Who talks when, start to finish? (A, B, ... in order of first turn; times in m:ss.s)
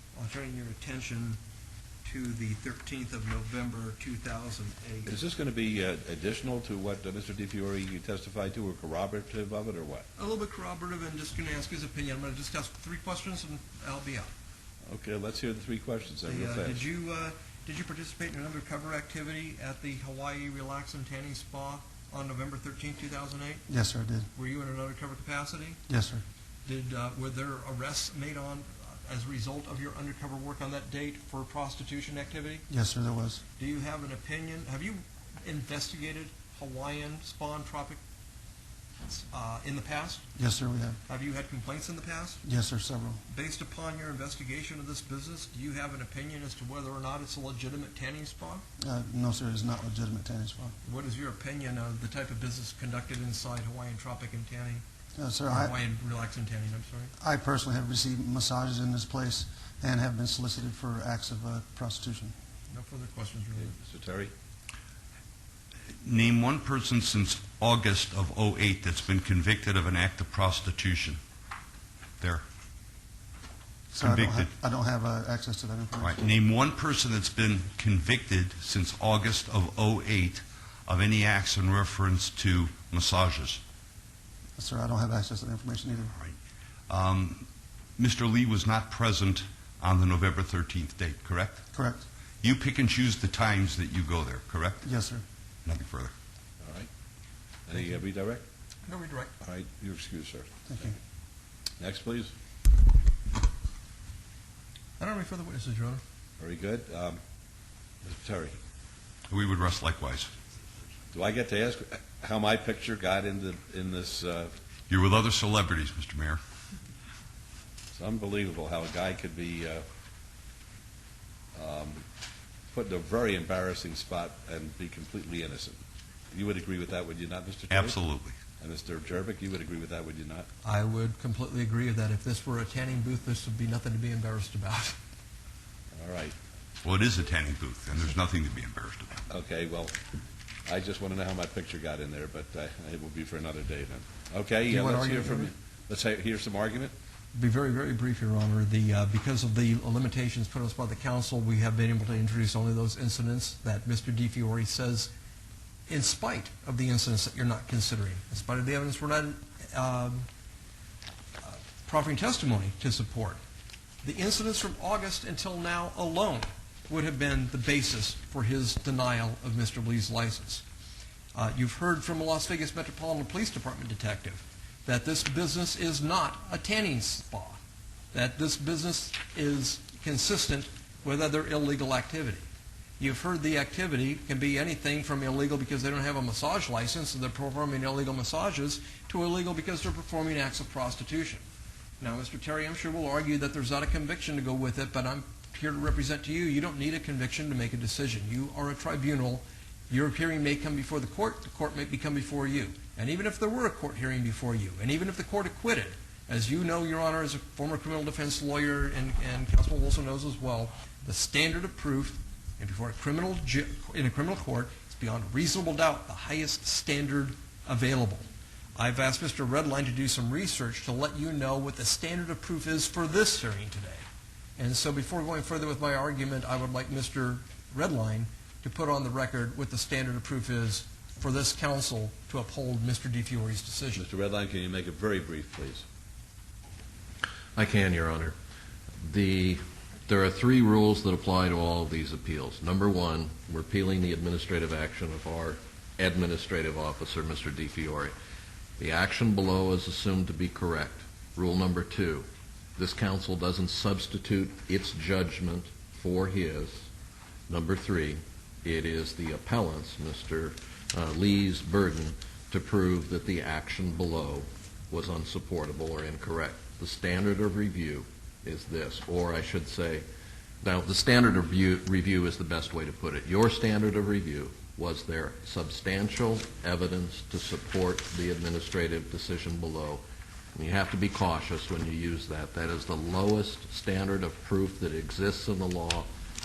0:00.2-0:01.4 A
0:02.0-0:05.1 A
0:05.1-0:10.1 B
0:10.2-0:14.3 A
0:14.9-0:16.9 B
0:16.3-0:23.6 A
0:23.7-0:24.3 C
0:24.4-0:25.8 A
0:25.9-0:26.2 C
0:26.6-0:32.7 A
0:32.7-0:33.4 C
0:33.6-0:38.0 A
0:39.0-0:40.2 A
0:40.4-0:41.0 C
0:41.1-0:42.4 A
0:42.4-0:43.2 C
0:43.3-0:48.6 A
0:48.8-0:50.8 C
0:50.8-0:54.8 A
0:55.2-0:55.8 C
0:55.5-0:57.1 A
0:57.2-1:02.3 C
1:02.7-1:03.7 A
1:03.6-1:04.3 B
1:06.0-1:11.2 D
1:13.9-1:16.2 C
1:14.0-1:14.5 D
1:16.0-1:23.6 D
1:24.6-1:26.1 C
1:26.9-1:27.5 D
1:28.0-1:31.6 D
1:31.7-1:32.0 C
1:32.4-1:34.9 D
1:34.8-1:35.2 C
1:35.6-1:36.1 D
1:36.6-1:36.9 B
1:37.7-1:38.4 B
1:38.9-1:39.3 A
1:39.4-1:40.5 B
1:40.7-1:41.0 C
1:41.8-1:42.3 B
1:45.0-1:46.0 A
1:46.4-1:47.2 B
1:48.0-1:48.6 B
1:49.3-1:50.3 D
1:51.1-1:54.5 B
1:54.9-1:56.4 D
1:57.9-1:59.8 B
2:01.6-2:02.0 B
2:02.7-2:05.8 B
2:06.3-2:08.0 B
2:07.7-2:08.4 D
2:08.6-2:10.5 B
2:10.6-2:15.0 A
2:16.0-2:16.4 B
2:16.8-2:19.2 D
2:19.3-2:20.0 B
2:20.7-2:26.9 B
2:24.7-2:25.5 A
2:27.3-2:35.1 A
2:35.9-2:40.3 A
2:41.4-2:43.4 A
2:44.0-2:50.6 A
2:51.4-2:57.6 A
2:58.1-3:02.4 A
3:03.0-3:11.4 A
3:12.0-3:44.0 A
3:44.6-3:54.1 A
3:54.0-3:55.9 B
3:57.6-3:58.4 E
3:59.0-4:08.2 E
4:08.8-4:16.9 E
4:17.5-4:30.1 E
4:30.6-4:40.0 E
4:40.6-4:46.1 E